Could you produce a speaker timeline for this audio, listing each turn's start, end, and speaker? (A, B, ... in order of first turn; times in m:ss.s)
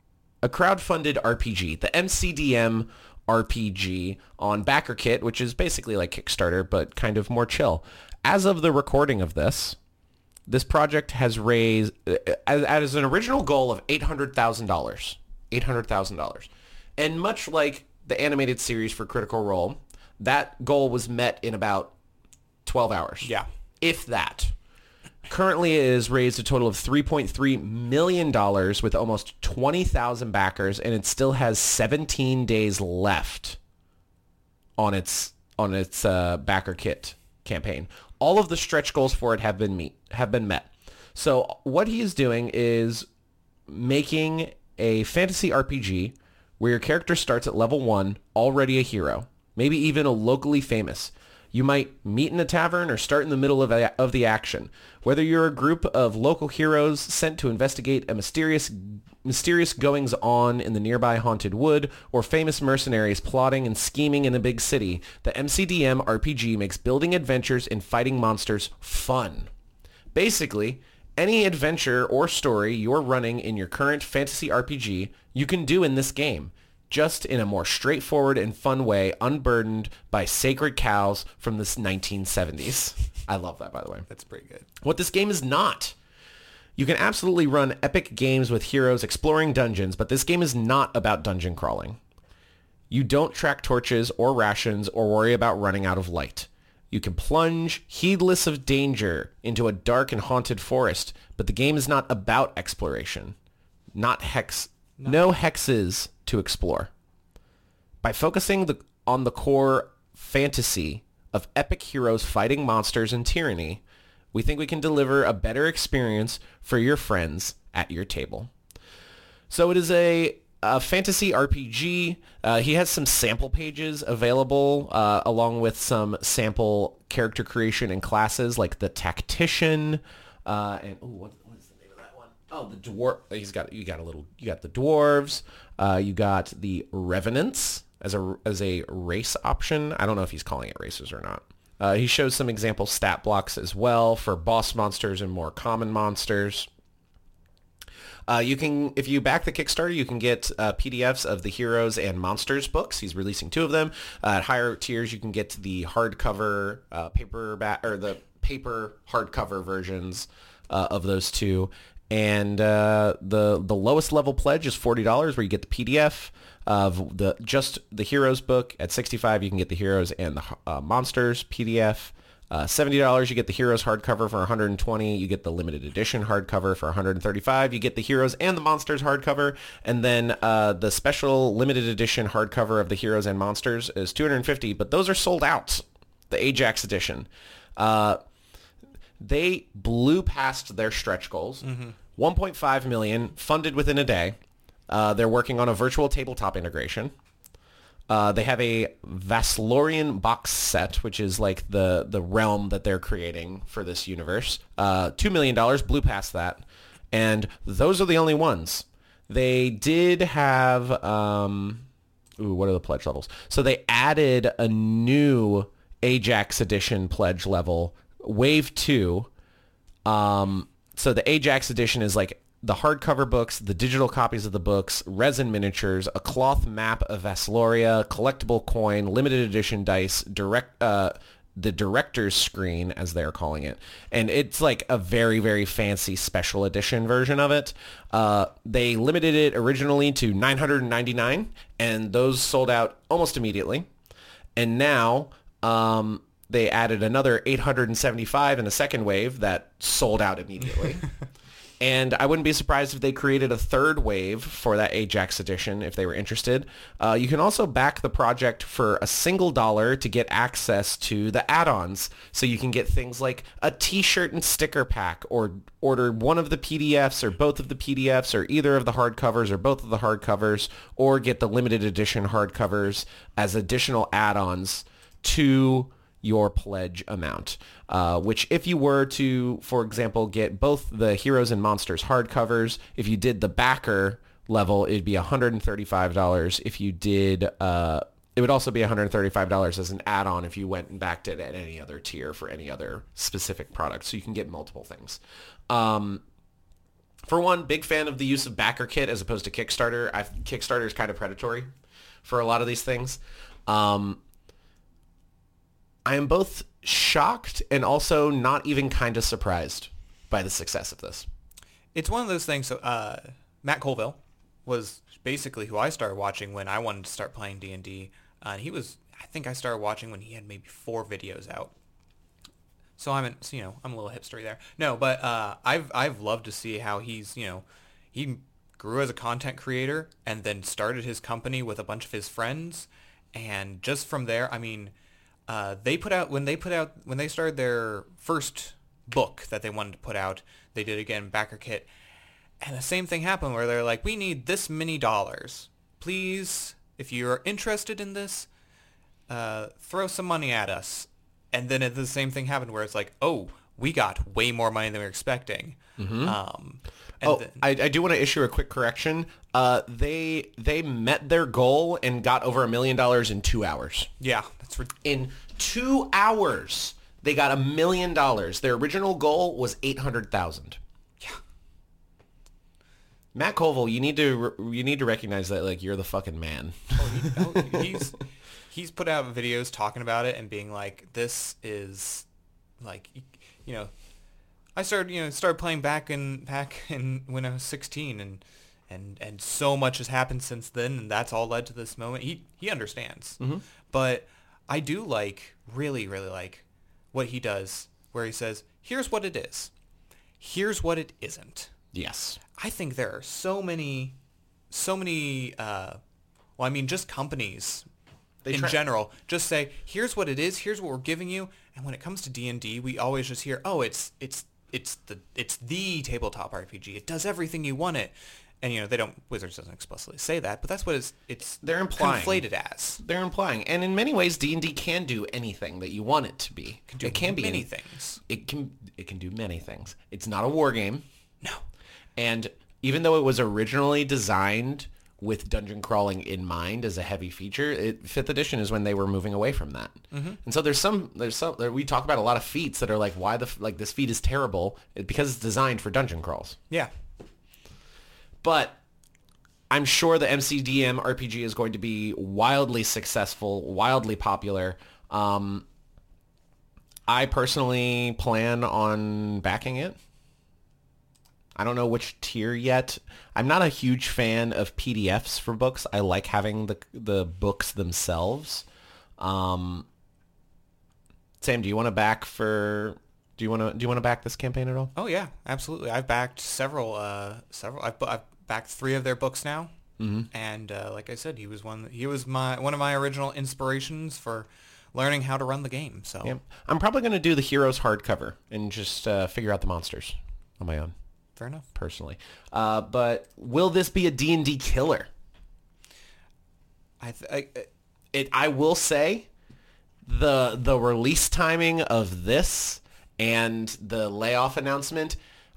0:00.4-0:09.8 A
0:10.5-0:21.9 A
0:22.6-0:24.5 A
0:23.2-0:23.5 B
0:25.3-0:33.6 A
0:34.8-0:43.1 A
0:43.7-1:09.5 A
1:10.1-1:24.1 A
1:24.1-1:24.7 B
1:24.8-1:25.9 A
1:26.8-1:32.0 A
1:32.9-1:43.4 A
1:43.9-1:46.9 A
1:45.0-1:45.2 B
1:48.0-1:53.8 A
1:54.3-1:58.5 A
1:59.5-2:26.7 A
2:28.3-3:08.2 A
3:09.2-3:14.4 A
3:11.6-3:12.0 B
3:14.9-3:17.1 A
3:18.1-3:31.9 A
3:32.4-3:39.3 A
3:40.0-4:03.9 A
4:04.6-4:11.1 A
4:11.8-4:56.2 A
4:57.2-5:01.7 A
5:02.2-5:04.2 A
5:06.0-5:11.2 A
5:11.9-5:21.7 B
5:23.0-5:34.9 B
5:35.5-5:41.9 B
5:42.6-5:48.5 B
5:49.3-5:57.6 B
5:56.0-5:56.4 A
5:57.2-6:04.1 A
6:04.2-6:04.9 B
6:05.0-6:10.8 A
6:13.3-6:18.0 A
6:16.9-6:18.2 B
6:18.7-6:22.3 B
6:22.8-6:23.9 B
6:24.7-6:39.7 B
6:40.4-6:41.7 B
6:41.9-6:42.4 A
6:42.5-6:44.2 B
6:44.7-6:46.0 B
6:46.6-6:47.9 B
6:48.4-6:48.8 A
6:48.5-7:03.0 B
7:01.6-7:02.4 A
7:03.0-7:07.7 A
7:06.9-7:08.2 B
7:08.3-7:11.0 A
7:12.2-7:26.6 A
7:20.1-7:20.4 B
7:28.4-7:28.8 A
7:29.7-7:35.7 A
7:37.1-7:40.0 A
7:41.6-7:48.6 A
7:49.2-7:49.9 A
7:51.4-7:54.9 A
7:54.9-7:59.7 B
8:00.0-8:00.3 A
8:00.3-8:06.4 B
8:06.2-8:10.9 A
8:11.4-8:11.7 B
8:11.7-8:15.1 A
8:17.0-8:17.7 B
8:18.1-8:19.3 A
8:20.0-8:25.2 A